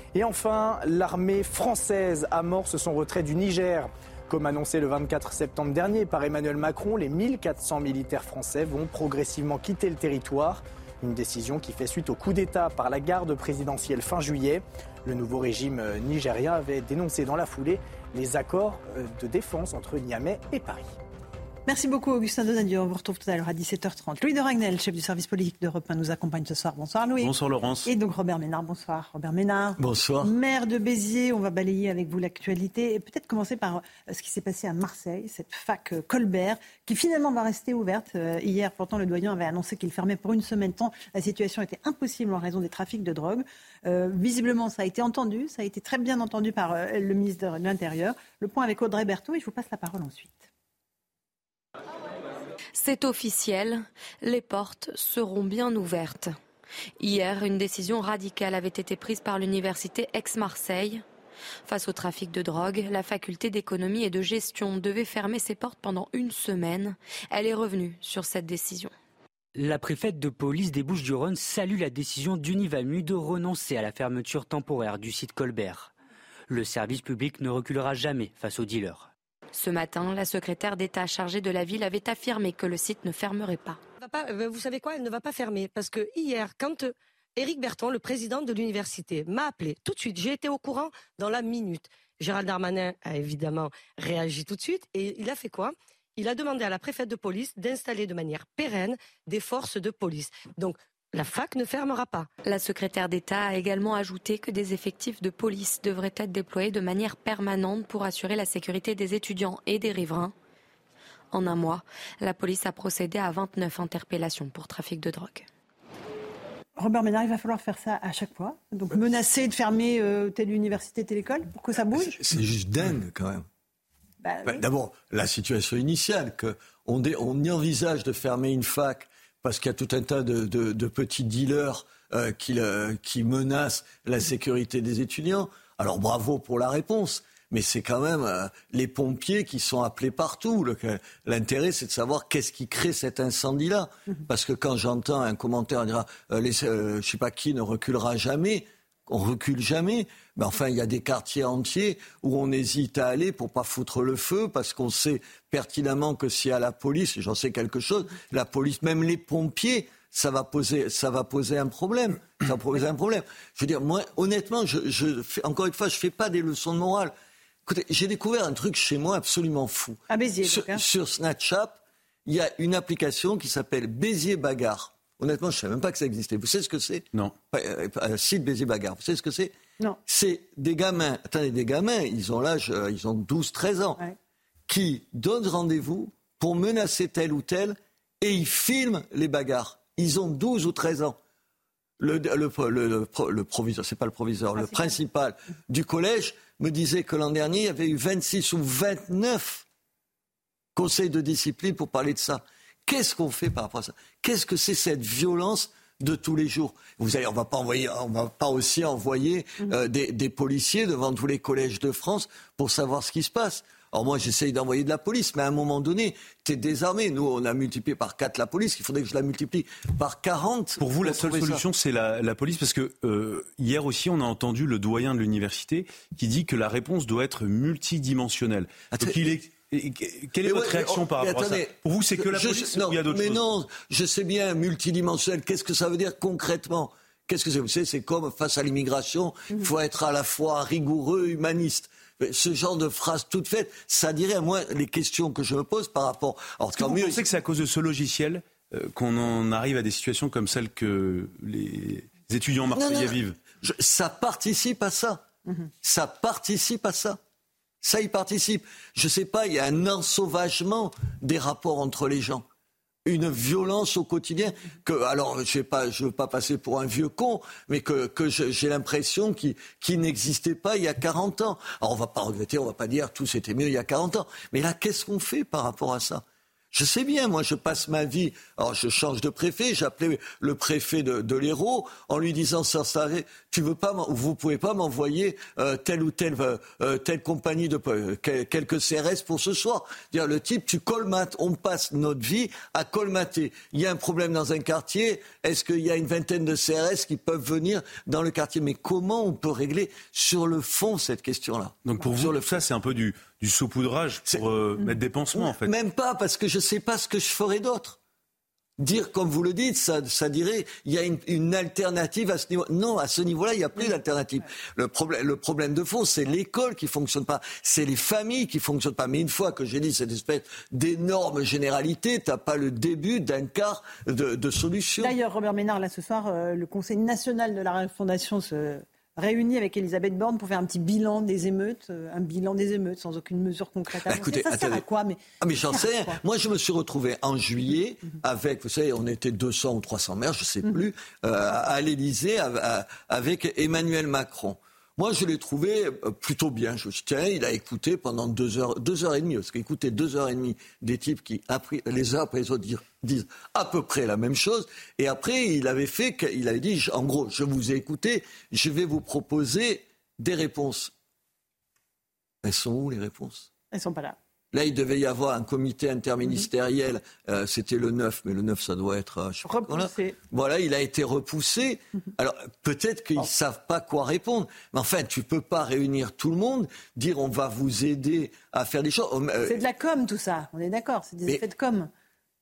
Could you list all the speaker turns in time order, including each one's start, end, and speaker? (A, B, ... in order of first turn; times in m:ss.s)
0:00.1-0:20.9 A
0:21.7-0:27.3 B
0:27.2-0:27.9 C
0:27.8-0:50.5 B
0:29.8-0:30.3 D
0:52.7-0:56.3 E
0:57.0-1:01.0 E
1:01.6-1:08.9 E
1:09.5-1:15.9 F
1:16.5-1:19.1 F
1:19.5-1:23.8 E
1:24.0-1:42.3 G
1:42.4-1:50.3 E
1:51.3-1:55.4 E
1:56.8-2:02.2 B
2:02.0-2:03.4 D
2:04.2-2:04.6 B
2:04.4-2:47.1 D
2:47.7-2:59.5 D
2:50.1-2:50.8 B
3:00.1-3:04.0 D
3:04.7-3:11.2 D
3:12.0-3:19.6 D
3:14.7-3:14.9 B
3:20.8-3:41.6 D
3:40.8-3:53.4 C
3:48.9-3:49.3 D
3:50.4-4:07.2 D
4:06.8-4:13.4 C
4:12.7-4:15.2 D
4:15.8-4:17.2 D
4:17.8-4:22.4 D
4:23.0-5:02.6 D
5:01.8-5:05.7 C
5:05.3-5:08.0 D
5:08.8-5:25.1 D
5:25.0-5:35.2 B
5:34.0-5:34.8 D
5:35.4-6:00.9 D
5:35.7-5:36.2 B
6:02.4-6:03.5 D
6:03.7-6:04.2 B
6:04.5-6:19.6 D
6:09.4-6:10.2 B
6:19.4-6:21.9 B